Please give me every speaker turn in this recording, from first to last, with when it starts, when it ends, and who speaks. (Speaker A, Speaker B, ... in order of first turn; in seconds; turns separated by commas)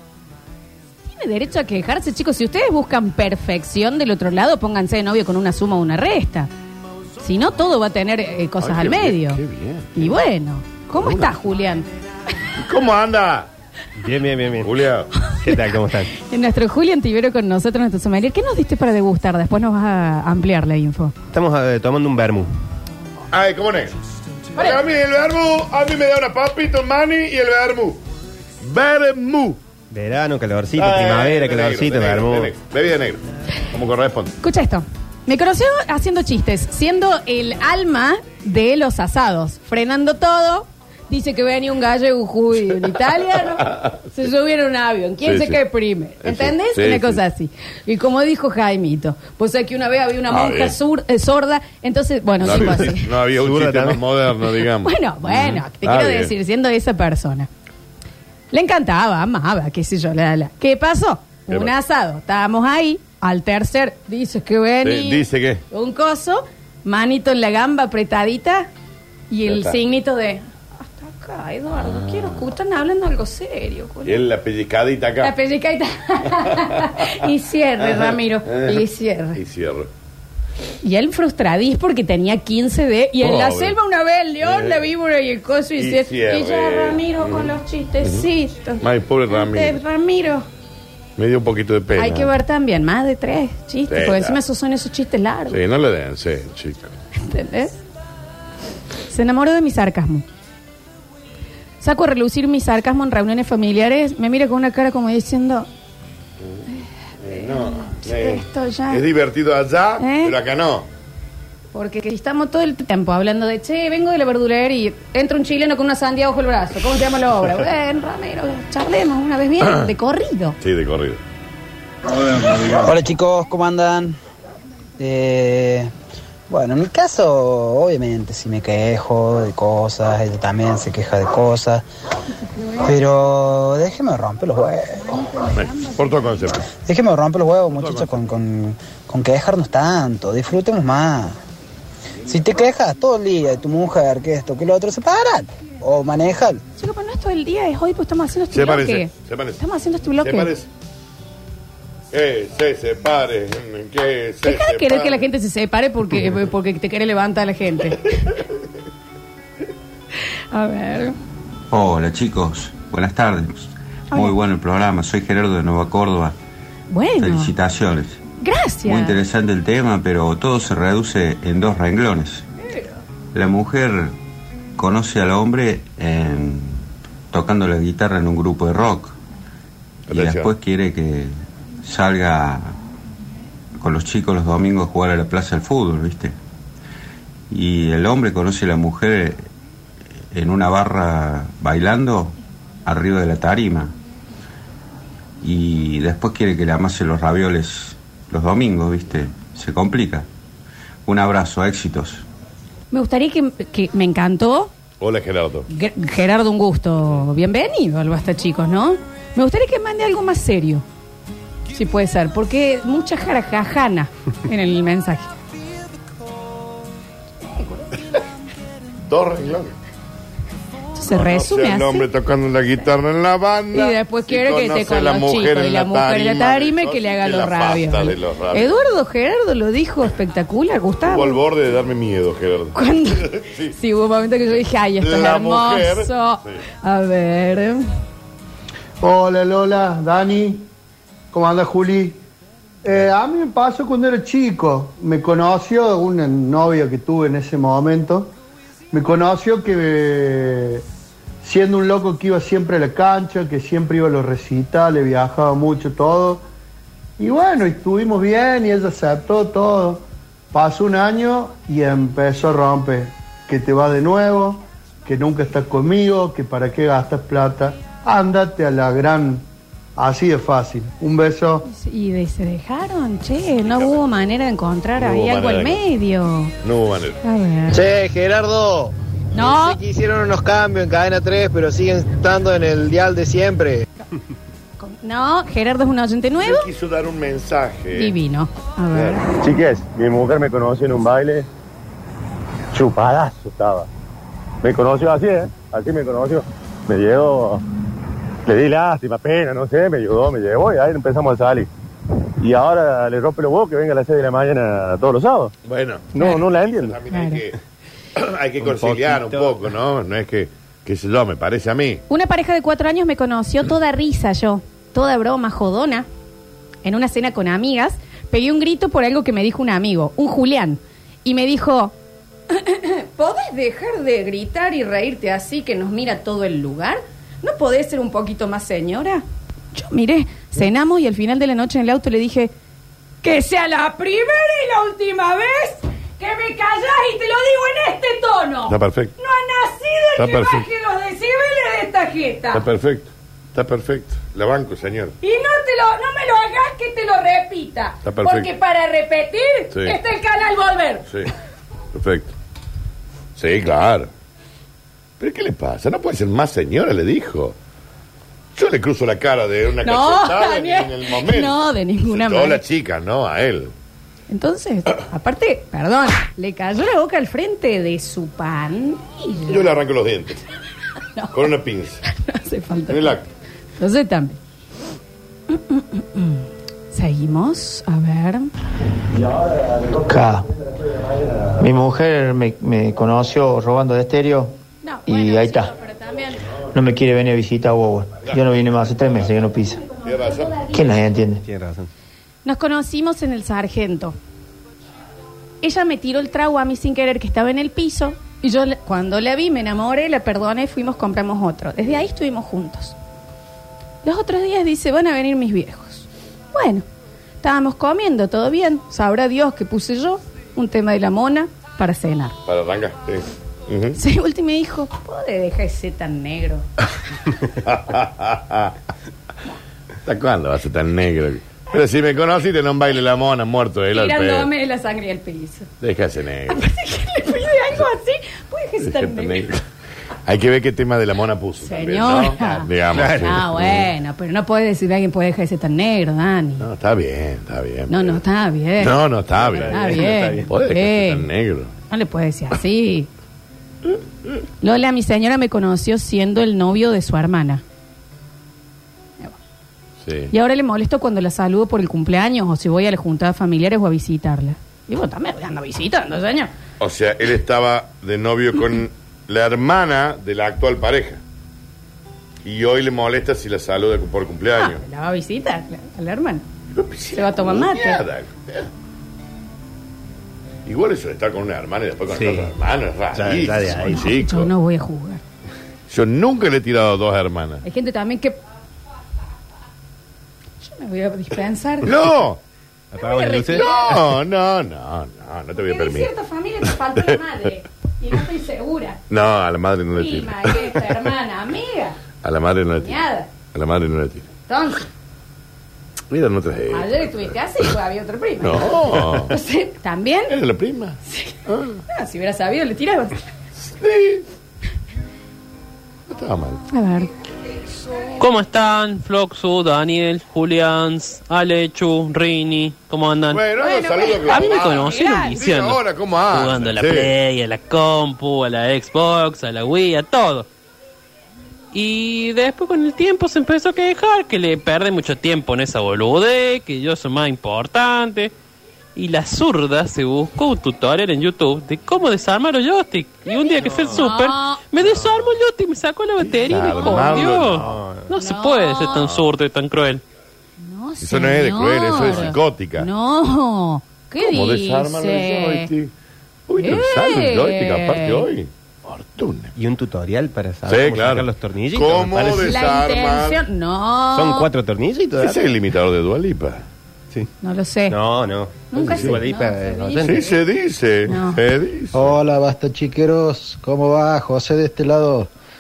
Speaker A: 1.1-6.5, Speaker A: 7.2-9.4, Speaker B: 8.6-10.2, Speaker A: 9.9-11.9, Speaker B: 10.9-11.4, Speaker B: 12.6-13.5, Speaker C: 14.0-14.8, Speaker B: 14.6-15.1, Speaker C: 15.4-16.1, Speaker A: 16.1-21.1, Speaker C: 21.3-22.5, Speaker B: 23.3-23.9, Speaker B: 24.6-28.0, Speaker B: 28.6-29.6, Speaker C: 29.9-32.5, Speaker B: 30.8-34.3, Speaker A: 34.4-53.1, Speaker B: 43.7-44.0, Speaker B: 45.2-45.6, Speaker B: 46.2-47.2, Speaker B: 50.3-50.8, Speaker B: 52.4-56.3, Speaker C: 52.5-54.2, Speaker A: 54.8-57.5, Speaker A: 58.5-68.7, Speaker B: 61.5-61.7, Speaker B: 64.8-65.6, Speaker A: 69.3-74.2, Speaker B: 69.5-69.8, Speaker B: 71.9-72.2, Speaker B: 74.0-75.3, Speaker A: 75.2-79.4, Speaker B: 77.9-78.8, Speaker B: 79.3-79.9, Speaker A: 80.8-90.5, Speaker B: 83.2-83.8, Speaker B: 84.4-84.8, Speaker B: 85.8-88.2, Speaker B: 88.8-89.8, Speaker B: 91.2-92.3, Speaker A: 92.0-95.6, Speaker B: 93.9-94.4, Speaker B: 95.5-96.9, Speaker A: 97.2-97.8, Speaker A: 99.1-100.2, Speaker A: 101.8-105.7, Speaker B: 106.4-106.7, Speaker B: 107.2-110.9, Speaker A: 107.3-109.0, Speaker A: 110.0-110.3, Speaker A: 111.7-120.6, Speaker B: 120.6-121.2, Speaker D: 122.5-124.2, Speaker D: 125.0-125.9, Speaker D: 126.5-131.8, Speaker D: 132.8-135.2, Speaker B: 135.5-136.7, Speaker D: 136.9-141.4, Speaker B: 137.7-138.1, Speaker D: 142.3-146.6, Speaker A: 146.8-150.5, Speaker B: 148.5-149.6, Speaker B: 150.2-150.7, Speaker B: 152.1-155.3, Speaker A: 154.4-158.2, Speaker A: 160.5-161.2, Speaker E: 161.7-166.3, Speaker A: 166.9-167.5, Speaker E: 167.2-168.2, Speaker A: 168.4-169.2, Speaker E: 168.8-172.4, Speaker E: 173.3-174.1, Speaker E: 174.8-179.1, Speaker B: 180.1-180.5, Speaker E: 180.1-182.8, Speaker E: 183.8-186.3, Speaker E: 187.5-189.4, Speaker E: 190.3-192.3, Speaker E: 192.9-193.9, Speaker E: 195.4-200.3, Speaker E: 201.1-202.2, Speaker A: 202.9-204.7, Speaker B: 205.0-205.7, Speaker A: 205.7-210.8, Speaker A: 211.7-215.3, Speaker A: 217.4-217.9, Speaker B: 219.1-219.7, Speaker A: 220.9-222.1, Speaker B: 221.1-228.8, Speaker A: 223.7-231.4, Speaker B: 231.1-233.7, Speaker A: 232.8-237.9, Speaker B: 235.0-236.6, Speaker F: 239.0-240.7, Speaker F: 241.3-242.2, Speaker F: 242.8-248.3, Speaker F: 248.9-250.8, Speaker F: 251.4-256.4, Speaker F: 257.2-269.4, Speaker F: 270.0-271.7, Speaker A: 271.7-276.5, Speaker B: 273.6-274.0, Speaker B: 275.0-275.8, Speaker B: 276.6-277.2, Speaker A: 277.2-277.9, Speaker A: 279.3-279.8, Speaker A: 284.8-286.7, Speaker B: 286.4-288.2, Speaker A: 287.9-289.2, Speaker B: 288.9-289.2, Speaker G: 289.4-291.5, Speaker G: 292.7-293.9, Speaker G: 294.6-297.6, Speaker G: 298.4-301.7, Speaker G: 302.4-305.5, Speaker B: 305.6-307.6, Speaker G: 306.2-306.9, Speaker A: 307.1-307.4, Speaker B: 308.2-312.0, Speaker C: 308.6-309.7, Speaker A: 312.1-316.1, Speaker A: 316.8-321.9, Speaker A: 322.5-332.5, Speaker A: 333.2-342.6, Speaker B: 338.7-339.1, Speaker B: 340.2-340.7, Speaker B: 342.5-345.2, Speaker A: 345.2-351.1, Speaker B: 348.0-348.5, Speaker B: 349.7-350.0, Speaker B: 351.9-352.3, Speaker B: 353.4-354.1, Speaker B: 355.2-357.6, Speaker B: 358.6-363.7, Speaker A: 359.8-362.6, Speaker A: 364.3-369.7, Speaker B: 369.5-370.4, Speaker A: 371.2-371.4, Speaker B: 371.3-372.0, Speaker A: 372.1-373.2, Speaker B: 372.9-373.3, Speaker A: 373.8-374.4, Speaker A: 375.5-378.5, Speaker H: 380.0-380.4, Speaker H: 381.6-384.5, Speaker A: 384.8-386.5, Speaker H: 385.1-385.7, Speaker H: 386.7-389.8, Speaker B: 390.0-390.7, Speaker H: 390.7-391.4, Speaker C: 391.4-391.9, Speaker A: 392.4-394.2, Speaker A: 395.6-402.9, Speaker A: 404.0-406.9, Speaker A: 407.4-412.4, Speaker B: 412.5-414.0, Speaker A: 414.0-416.7, Speaker B: 417.6-418.7, Speaker B: 420.1-424.5, Speaker A: 423.9-425.7, Speaker B: 425.8-426.6, Speaker A: 426.5-429.5, Speaker B: 428.8-429.6, Speaker B: 430.2-433.9, Speaker A: 431.6-436.7, Speaker C: 432.9-433.3, Speaker B: 436.6-438.2, Speaker A: 437.9-439.0, Speaker B: 438.8-441.7, Speaker C: 439.4-440.5, Speaker A: 439.7-441.3, Speaker A: 441.9-443.1, Speaker A: 444.6-447.6, Speaker B: 450.1-450.3, Speaker A: 450.3-456.5, Speaker B: 456.8-461.2, Speaker B: 462.4-464.8, Speaker A: 464.6-466.4, Speaker B: 466.7-468.7, Speaker A: 467.1-468.0, Speaker B: 470.7-474.5, Speaker C: 472.1-472.5, Speaker C: 473.1-474.1, Speaker A: 473.8-475.2, Speaker B: 475.9-477.6, Speaker A: 477.6-478.4, Speaker A: 480.6-481.9, Speaker B: 481.8-482.4, Speaker C: 482.9-483.6, Speaker A: 482.9-484.0, Speaker B: 483.5-486.1, Speaker A: 485.6-489.0, Speaker B: 489.1-490.9, Speaker A: 490.0-492.0, Speaker B: 492.2-493.0, Speaker A: 492.8-493.3, Speaker B: 493.5-494.3, Speaker A: 494.5-494.9, Speaker B: 496.1-497.3, Speaker A: 496.7-500.3, Speaker B: 498.4-499.4, Speaker B: 500.3-501.8, Speaker A: 501.1-501.4, Speaker A: 501.9-503.2, Speaker B: 503.6-504.2, Speaker B: 506.1-506.6, Speaker A: 506.7-507.1, Speaker I: 508.2-513.5, Speaker B: 513.3-517.1, Speaker A: 513.6-515.4, Speaker I: 514.2-515.8, Speaker I: 516.3-520.5, Speaker I: 521.7-528.3, Speaker I: 529.0-540.0, Speaker A: 533.3-534.6, Speaker C: 533.6-534.0, Speaker B: 536.2-537.7, Speaker C: 536.8-538.1, Speaker A: 538.1-539.0, Speaker B: 538.9-539.3, Speaker A: 540.6-545.7, Speaker B: 541.0-542.9, Speaker C: 542.0-542.3, Speaker B: 544.2-545.9, Speaker B: 546.5-549.5, Speaker A: 546.6-548.3, Speaker C: 549.6-552.5, Speaker B: 550.6-553.4, Speaker A: 552.5-554.5, Speaker C: 554.1-555.4, Speaker B: 555.2-556.6, Speaker A: 557.4-558.0, Speaker C: 557.9-560.3, Speaker A: 558.6-560.4, Speaker B: 558.8-559.2, Speaker B: 560.0-562.2, Speaker A: 561.1-561.4, Speaker J: 561.9-565.3